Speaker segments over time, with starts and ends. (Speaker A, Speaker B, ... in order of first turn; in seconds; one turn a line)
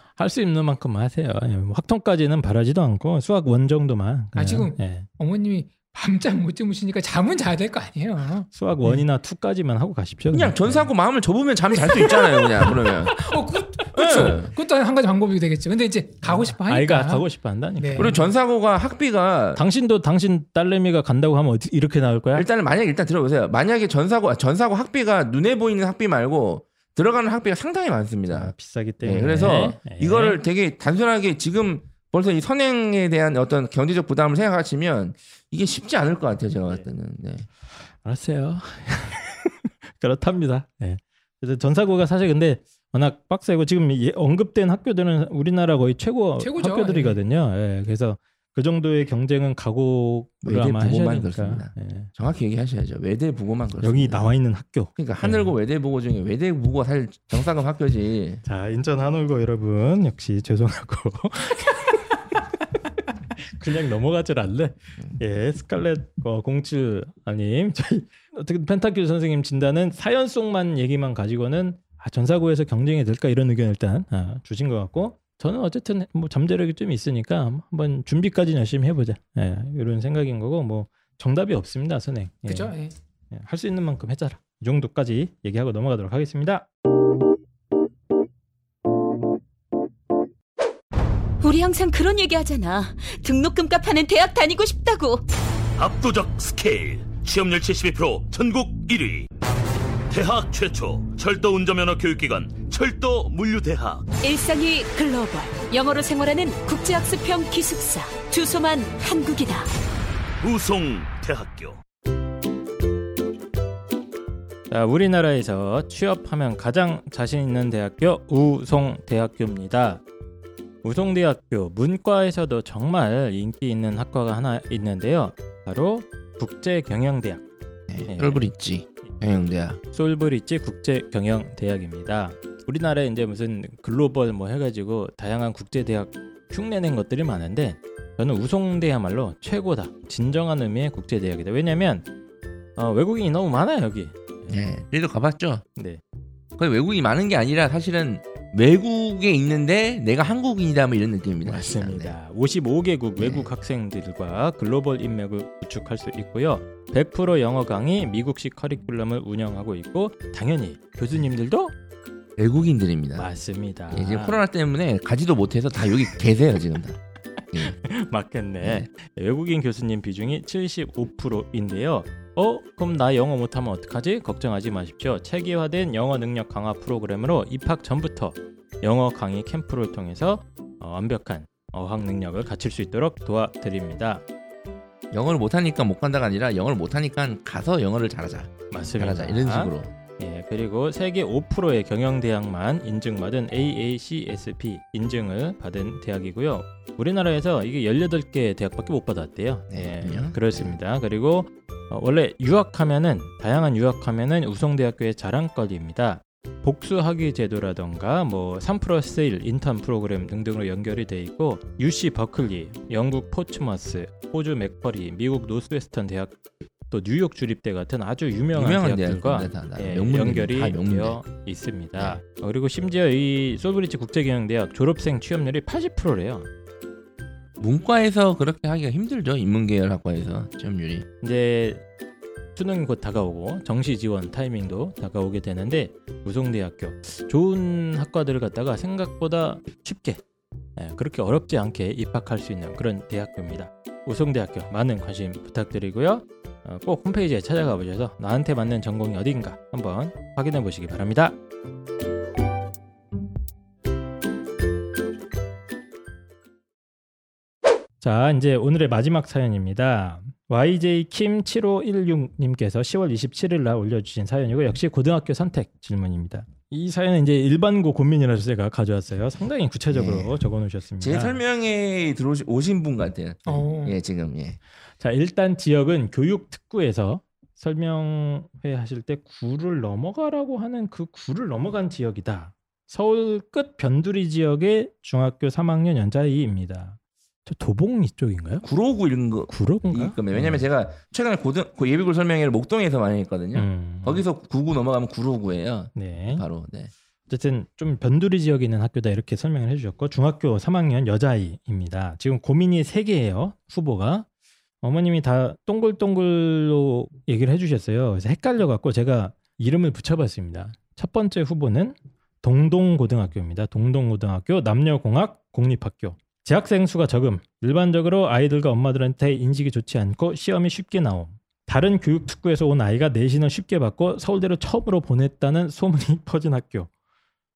Speaker A: 0.1-5.1
Speaker B: 4.3-9.1
Speaker A: 8.5-10.9
Speaker C: 10.3-13.2
Speaker B: 11.8-17.2
Speaker C: 13.9-14.5
Speaker A: 16.2-18.2
Speaker B: 17.8-18.1
Speaker C: 17.9-19.6
Speaker A: 19.6-22.4
Speaker C: 22.3-37.5
Speaker A: 28.3-30.4
Speaker A: 38.0-52.1
Speaker B: 46.4-47.2
Speaker C: 50.4-54.3
Speaker A: 53.8-55.5
Speaker C: 55.0-58.4
Speaker A: 58.4-62.0
Speaker A: 63.5-82.7
Speaker B: 82.4-82.9
Speaker A: 83.3-86.7
Speaker D: 91.4-95.2
Speaker E: 95.8-99.3
Speaker E: 100.1-104.1
Speaker D: 104.1-109.7
Speaker E: 110.4-111.8
Speaker A: 114.7-120.0
Speaker A: 120.8-127.4
Speaker C: 127.9-129.8
Speaker A: 128.0-128.4
Speaker A: 129.9-142.1
Speaker A: 142.8-144.6
Speaker C: 144.5-145.6
Speaker C: 146.6-152.2
Speaker A: 151.4-161.7
Speaker C: 153.2-153.5
Speaker C: 162.4-163.3
Speaker A: 163.1-164.4
Speaker C: 163.9-167.0
Speaker A: 167.6-184.2
Speaker C: 168.6-168.9
Speaker C: 185.1-189.9
Speaker A: 188.7-216.3
Speaker C: 199.7-200.8
Speaker A: 216.9-226.5
Speaker C: 218.5-221.2
Speaker C: 227.6-231.1
Speaker A: 231.2-231.8
Speaker A: 232.6-240.2
Speaker A: 240.8-251.3
Speaker A: 258.0-271.4
Speaker C: 269.9-270.4
Speaker C: 271.0-274.6
Speaker B: 273.4-274.0
Speaker A: 275.0-288.6
Speaker C: 288.6-296.9
Speaker A: 289.5-290.6
Speaker A: 293.5-294.2
Speaker A: 295.9-296.4
Speaker A: 297.3-304.2
Speaker A: 304.8-326.9